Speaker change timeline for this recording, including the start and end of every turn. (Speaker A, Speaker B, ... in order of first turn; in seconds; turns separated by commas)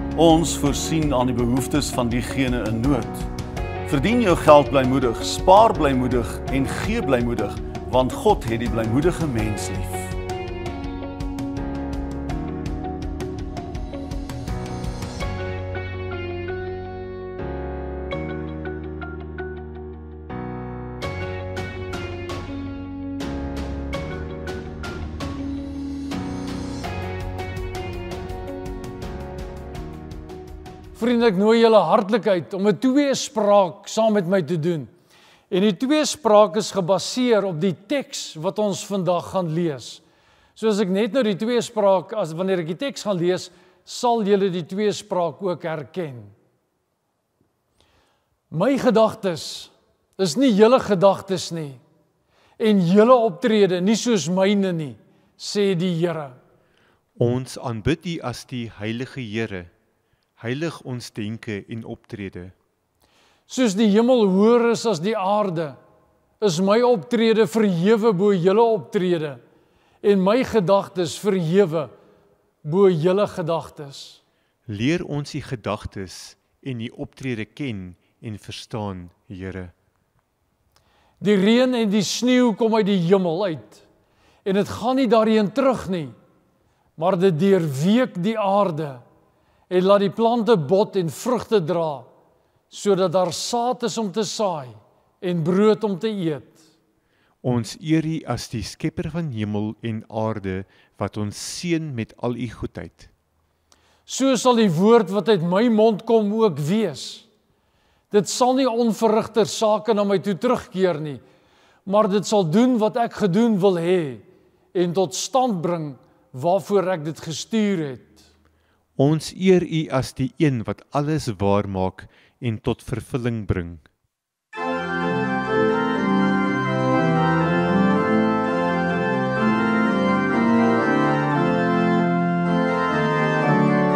Speaker A: 0.1-3.3, Speaker A: 3.9-10.2, Speaker B: 30.9-34.9, Speaker B: 35.5-40.0, Speaker B: 40.6-46.4, Speaker B: 48.5-51.8, Speaker B: 52.6-56.4, Speaker C: 57.2-59.7, Speaker C: 60.4-62.5, Speaker B: 63.5-65.8, Speaker B: 66.4-69.4, Speaker B: 70.0-71.9, Speaker B: 72.6-74.2, Speaker C: 74.7-79.7, Speaker B: 81.2-83.8, Speaker B: 84.5-86.2, Speaker B: 87.0-89.0, Speaker B: 89.7-92.1, Speaker B: 92.7-96.6, Speaker C: 97.4-103.1, Speaker B: 104.1-107.3, Speaker B: 108.1-111.2, Speaker B: 111.8-118.2, Speaker C: 119.0-123.9